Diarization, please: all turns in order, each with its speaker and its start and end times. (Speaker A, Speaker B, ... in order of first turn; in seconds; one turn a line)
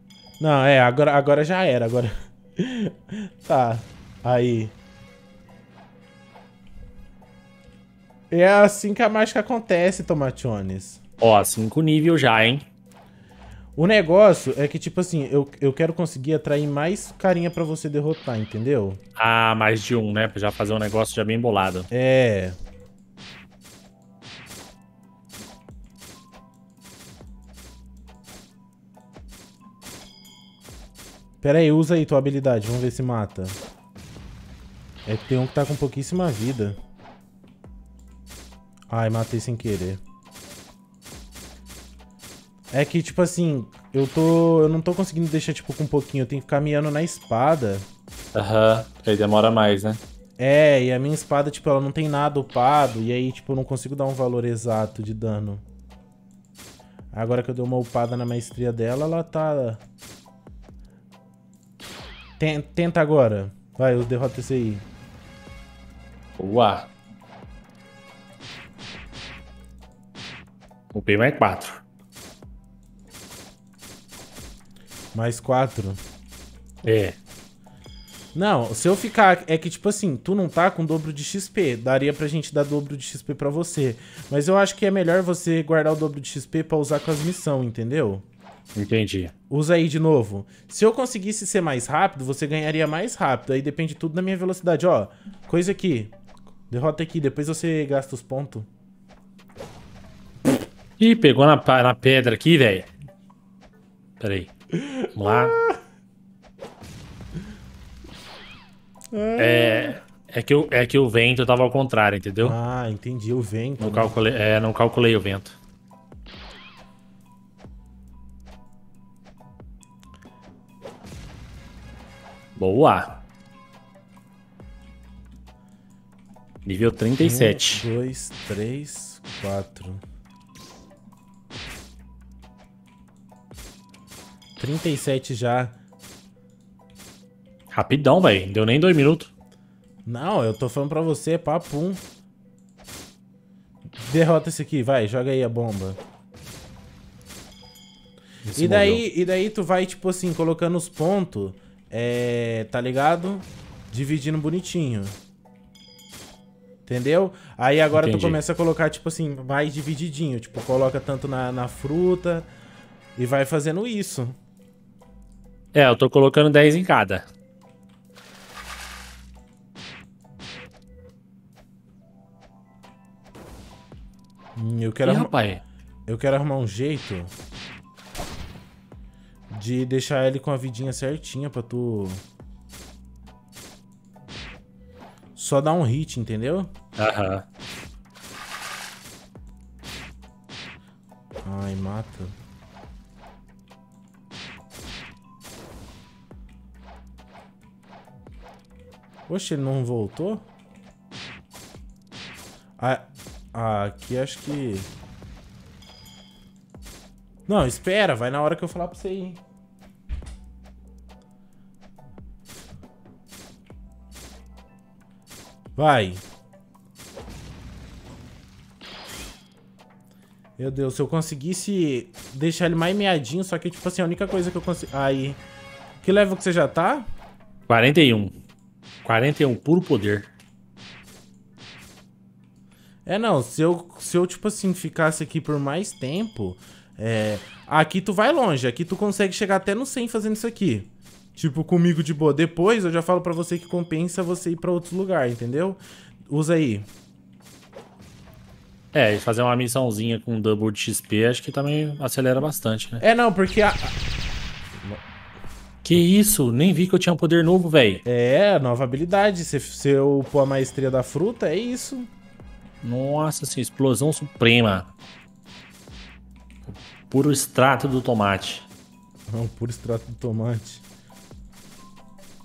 Speaker A: 0.4-4.7
Speaker A: 8.3-11.0
Speaker B: 11.2-12.6
Speaker A: 13.8-19.0
Speaker B: 19.1-21.9
Speaker A: 21.9-22.6
Speaker A: 31.4-33.6
Speaker A: 35.0-36.8
Speaker A: 38.9-40.0
Speaker A: 42.7-47.9
Speaker B: 48.3-50.0
Speaker A: 50.4-55.6
Speaker A: 57.1-59.8
Speaker A: 62.4-64.8
Speaker B: 66.4-66.9
Speaker B: 70.9-71.8
Speaker A: 75.1-76.0
Speaker B: 76.8-77.2
Speaker A: 78.3-88.2
Speaker B: 88.7-89.3
Speaker A: 89.5-96.1
Speaker A: 96.7-98.7
Speaker B: 101.0-102.9
Speaker B: 104.2-104.5
Speaker A: 104.8-105.8
Speaker B: 105.1-105.5
Speaker A: 109.1-110.0
Speaker B: 109.4-112.5
Speaker A: 112.4-114.1
Speaker B: 113.8-115.5
Speaker B: 122.5-123.2
Speaker B: 126.6-127.8
Speaker A: 127.2-130.0
Speaker A: 134.6-135.8
Speaker B: 137.7-139.3
Speaker A: 140.1-142.0
Speaker A: 144.0-146.0
Speaker B: 148.4-149.0
Speaker A: 148.6-155.2
Speaker A: 156.8-162.5
Speaker B: 157.9-158.4
Speaker A: 163.2-164.3
Speaker B: 165.7-167.2
Speaker A: 174.6-175.3
Speaker B: 175.0-175.6
Speaker A: 176.1-177.3
Speaker A: 179.5-182.2
Speaker A: 185.3-186.7
Speaker B: 187.0-187.4
Speaker A: 191.4-192.3
Speaker A: 199.3-200.4
Speaker A: 202.8-204.9
Speaker A: 207.5-209.4
Speaker A: 215.8-216.2
Speaker A: 220.6-225.4
Speaker A: 226.0-227.1
Speaker B: 227.7-228.3
Speaker B: 229.0-230.3
Speaker A: 233.1-246.8
Speaker B: 248.9-253.0
Speaker A: 253.0-253.9
Speaker B: 255.8-258.0
Speaker A: 258.0-262.1
Speaker B: 262.8-264.9
Speaker B: 266.7-268.7
Speaker A: 269.3-270.8